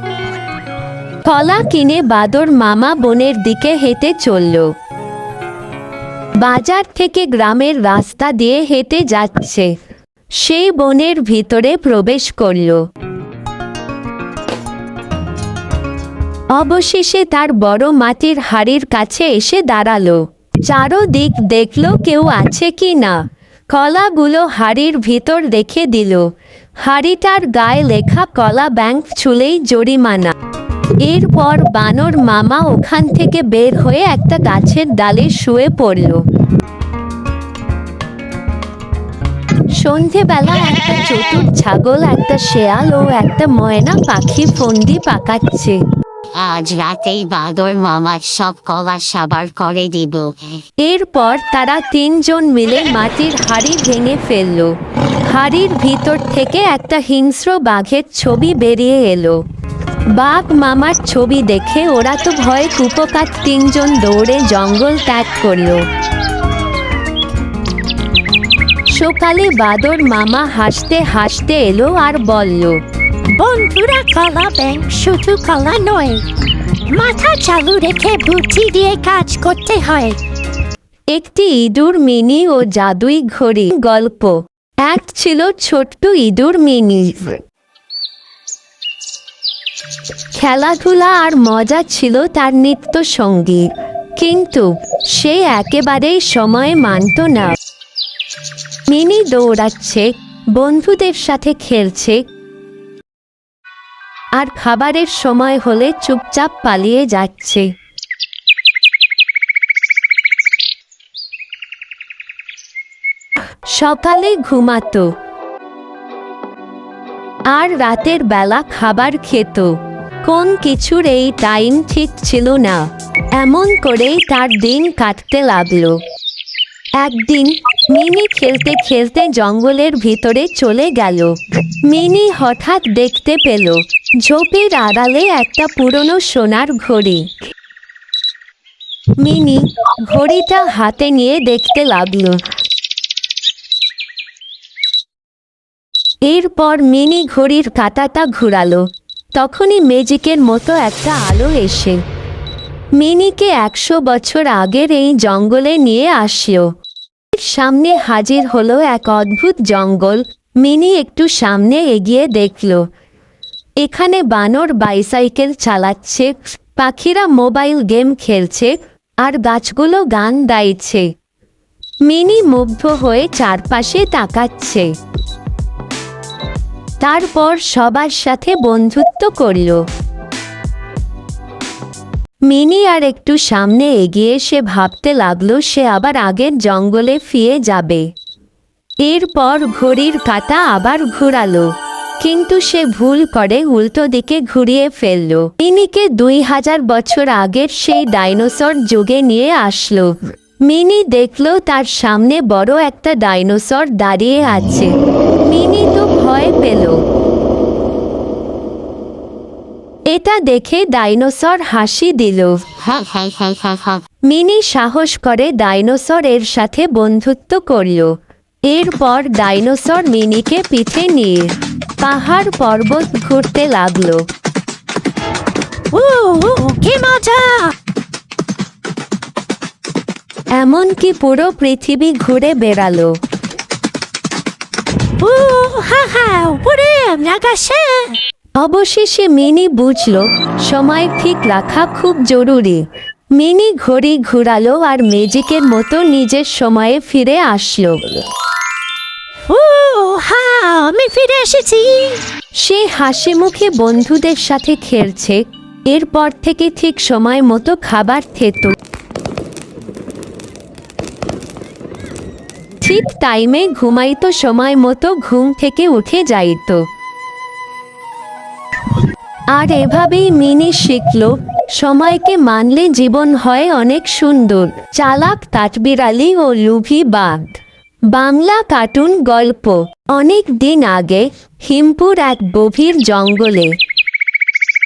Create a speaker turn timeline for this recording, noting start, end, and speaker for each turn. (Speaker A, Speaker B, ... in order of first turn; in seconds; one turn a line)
Speaker A: 1.2-4.7
Speaker A: 6.4-9.7
Speaker A: 10.4-12.8
Speaker A: 16.5-23.2
Speaker A: 23.7-26.3
Speaker A: 26.8-30.3
Speaker A: 31.0-36.2
Speaker A: 39.8-45.8
Speaker B: 46.4-50.4
Speaker A: 50.8-54.7
Speaker A: 55.3-59.4
Speaker A: 60.2-65.8
Speaker A: 68.9-72.8
Speaker C: 73.4-76.2
Speaker C: 76.9-80.2
Speaker A: 81.1-87.4
Speaker A: 90.3-93.7
Speaker A: 94.2-97.6
Speaker A: 98.9-102.2
Speaker A: 104.4-107.7
Speaker A: 113.7-115.1
Speaker A: 117.5-119.7
Speaker A: 120.2-122.9
Speaker A: 123.4-126.0
Speaker A: 127.0-137.3
Speaker A: 139.2-142.4
Speaker A: 146.3-148.9
Speaker A: 149.4-152.0
Speaker A: 153.0-156.7
Speaker A: 157.3-162.8
Speaker A: 163.8-171.1
Speaker A: 172.1-174.9
Speaker A: 177.0-179.8
Speaker A: 182.5-188.1
Speaker A: 189.1-191.7
Speaker A: 192.2-200.1
Speaker A: 200.7-204.9
Speaker A: 205.5-207.0
Speaker A: 210.1-212.5
Speaker B: 212.9-214.0
Speaker A: 214.3-218.1
Speaker A: 218.7-224.2
Speaker C: 225.9-227.7
Speaker A: 230.6-233.2
Speaker C: 235.2-238.2
Speaker A: 238.6-242.8
Speaker A: 243.4-248.0
Speaker C: 249.5-252.2
Speaker A: 252.6-258.8
Speaker A: 262.8-266.8
Speaker A: 269.5-277.5
Speaker A: 278.1-283.7